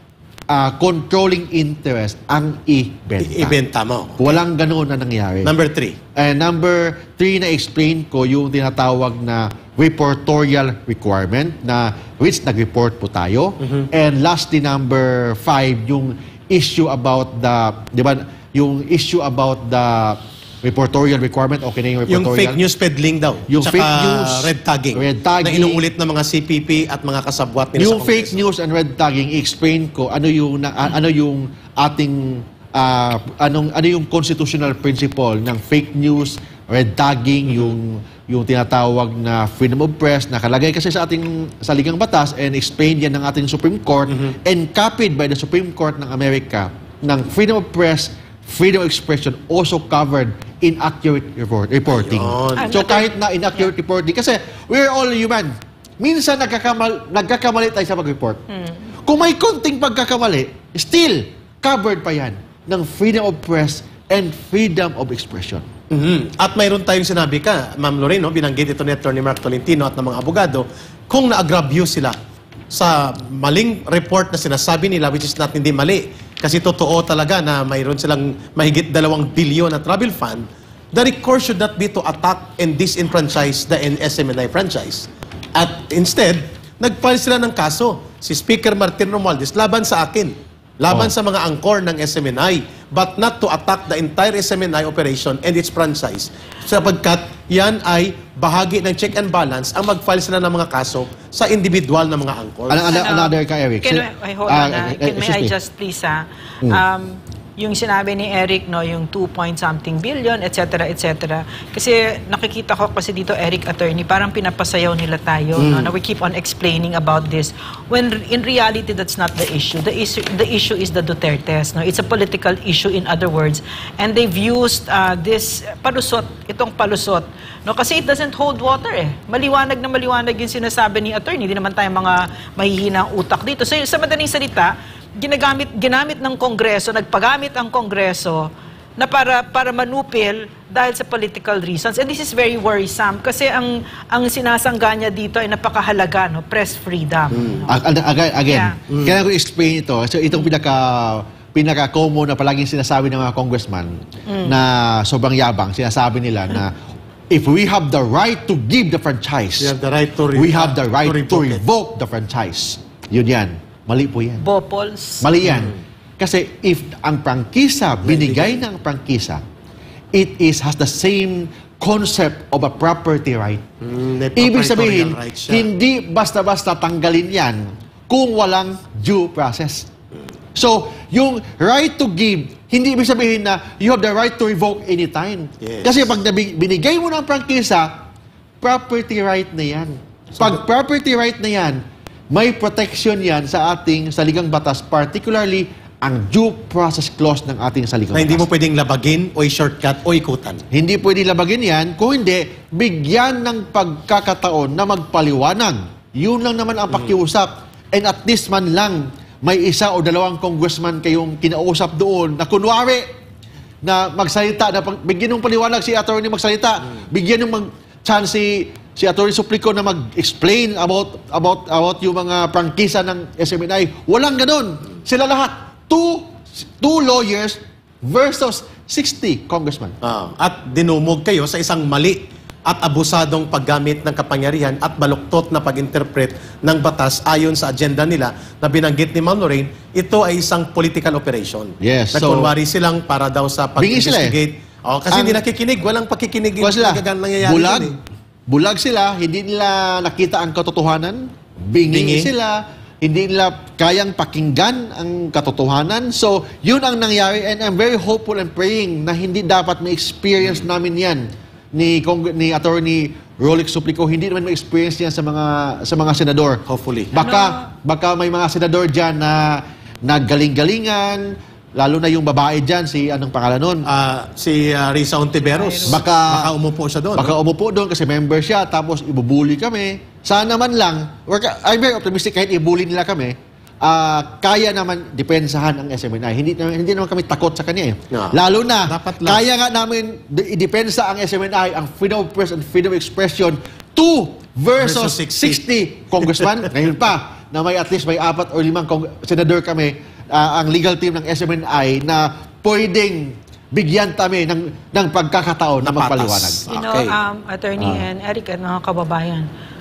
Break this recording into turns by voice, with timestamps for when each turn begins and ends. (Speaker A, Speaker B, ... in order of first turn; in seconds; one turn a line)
Speaker A: 0.5-3.6
Speaker B: 3.2-4.3
Speaker A: 4.2-5.5
Speaker B: 5.4-6.0
Speaker A: 6.2-22.6
Speaker B: 13.6-13.9
Speaker B: 22.1-28.4
Speaker A: 23.5-25.8
Speaker A: 27.8-58.4
Speaker B: 51.9-52.8
Speaker C: 52.6-53.7
Speaker C: 58.5-58.8
Speaker A: 59.0-65.7
Speaker B: 65.9-72.2
Speaker B: 72.7-103.0
Speaker A: 102.7-105.5
Speaker C: 102.9-147.7
Speaker B: 115.6-115.9
Speaker B: 147.3-147.6
Speaker A: 147.7-156.8
Speaker C: 148.5-148.8
Speaker B: 148.9-149.2
Speaker C: 154.3-154.6
Speaker A: 157.3-159.8
Speaker B: 159.6-161.6
Speaker A: 160.3-164.4
Speaker C: 164.4-165.3
Speaker A: 165.2-169.4
Speaker B: 165.4-165.8
Speaker B: 168.0-168.6
Speaker A: 170.1-173.6
Speaker B: 173.8-175.7
Speaker A: 174.4-179.9
Speaker A: 180.5-188.1
Speaker B: 185.6-186.2
Speaker A: 188.6-198.5
Speaker B: 198.1-200.6
Speaker A: 200.7-213.1
Speaker A: 213.8-230.0
Speaker B: 230.0-248.0
Speaker A: 241.8-242.5
Speaker A: 243.8-244.4
Speaker A: 245.1-245.4
Speaker A: 246.6-273.9
Speaker B: 251.9-252.3
Speaker B: 266.7-267.1
Speaker C: 267.2-267.6
Speaker B: 273.9-277.3
Speaker C: 275.5-276.0
Speaker A: 275.9-276.5
Speaker A: 277.1-306.6
Speaker B: 288.1-289.4
Speaker B: 294.8-295.6
Speaker B: 296.2-296.6
Speaker B: 305.8-307.2
Speaker C: 306.7-309.5